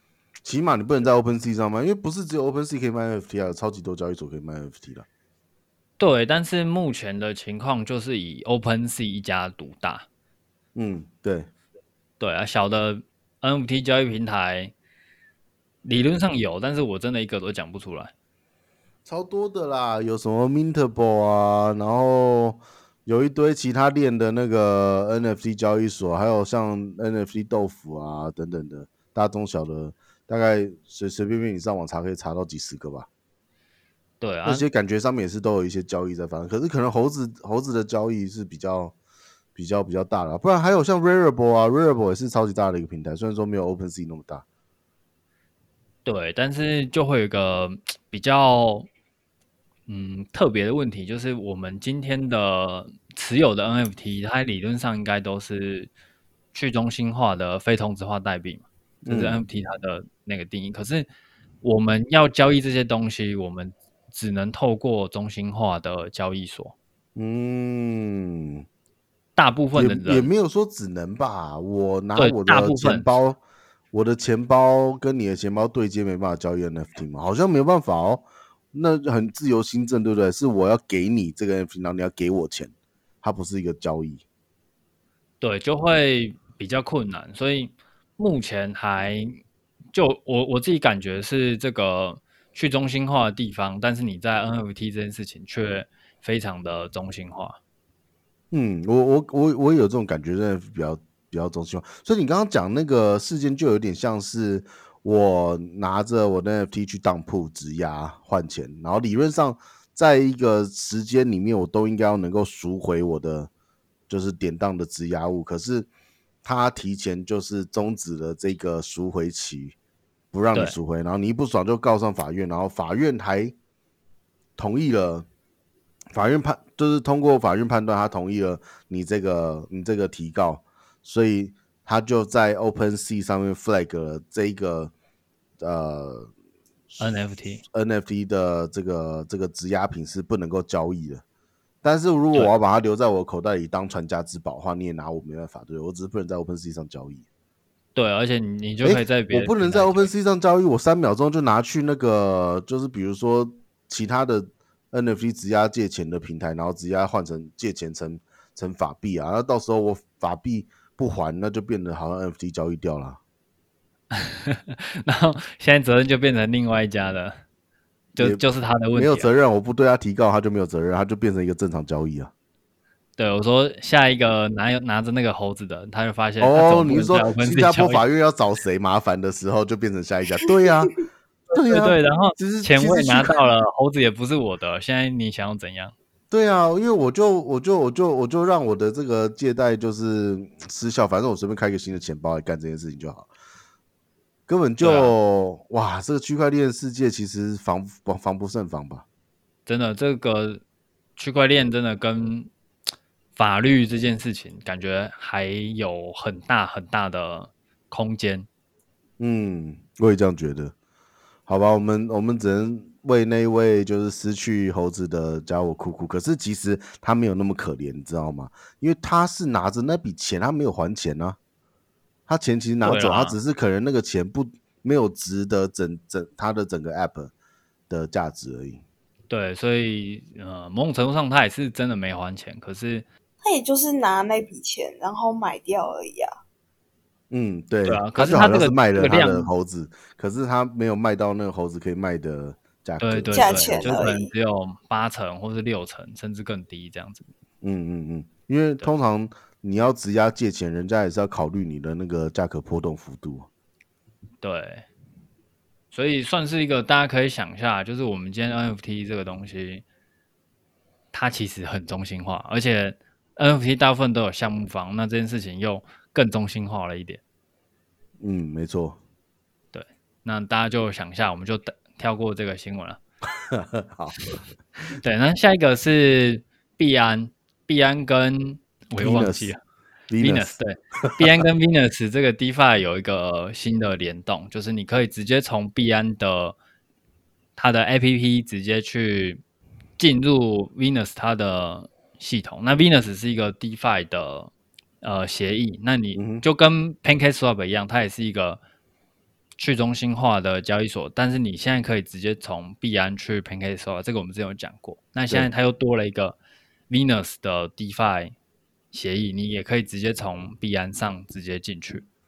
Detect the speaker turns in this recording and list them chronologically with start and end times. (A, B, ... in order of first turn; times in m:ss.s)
0:00.4-0:05.0 A
0:06.0-0:10.0 B
0:10.7-0:11.5 A
0:12.2-0:14.7 B
0:15.8-0:18.1 B
0:19.0-0:33.1 A
0:34.2-0:34.7 B
0:34.4-0:38.9 A
0:39.5-0:44.4 A
0:46.0-0:48.9 B
0:49.9-0:55.9 B
0:56.5-1:01.1 B
0:59.0-0:59.4 A
1:01.6-1:06.7 B
1:07.2-1:08.6 A
1:09.4-1:10.3 B
1:09.7-1:13.4 A
1:12.2-1:13.1 B
1:13.9-1:22.7 A
1:23.2-1:24.2 A
1:25.4-1:29.4 B
1:29.9-1:37.6 B
1:38.5-1:53.5 A
1:54.1-1:55.9 A
1:56.4-1:59.7 A
2:00.3-2:03.5 A
2:04.6-2:05.3 A
2:06.1-2:14.9 A
2:15.6-2:16.3 A
2:16.9-2:21.2 A
2:17.0-2:17.6 B
2:21.8-2:27.2 A
2:27.9-2:30.1 B
2:28.8-2:43.2 A
2:44.2-2:47.4 B
2:48.2-2:49.3 B
2:48.2-2:48.4 A
2:48.9-2:52.3 A
2:53.2-2:58.0 B
2:56.4-3:03.4 A
3:01.7-3:05.9 B
3:06.3-3:13.3 A
3:14.5-3:19.0 A
3:14.8-3:15.1 B
3:19.6-3:20.6 B
3:21.2-3:22.5 B
3:23.4-3:28.5 B
3:29.2-3:30.7 A
3:31.5-3:41.4 A
3:42.3-3:47.3 A
3:42.8-3:43.4 B
3:47.9-3:48.8 A
3:49.3-3:53.0 B
3:53.4-3:56.3 C
3:57.3-4:04.0 A
3:57.8-3:59.5 B
4:03.0-4:07.3 B
4:03.3-4:04.3 C
4:07.6-4:13.5 A
4:14.4-4:14.9 B
4:15.9-4:19.8 B
4:21.1-4:27.2 B
4:28.2-4:29.0 A
4:29.7-4:33.0 B
4:33.6-4:34.4 A
4:35.0-4:39.6 B
4:39.0-4:39.5 A
4:40.1-4:41.2 A
4:40.2-4:46.6 B
4:47.6-4:49.4 B
4:50.0-4:54.5 B
4:55.0-4:58.6 B
4:56.1-4:56.4 A
4:59.6-5:06.4 B
5:06.9-5:08.3 B
5:08.9-5:12.0 B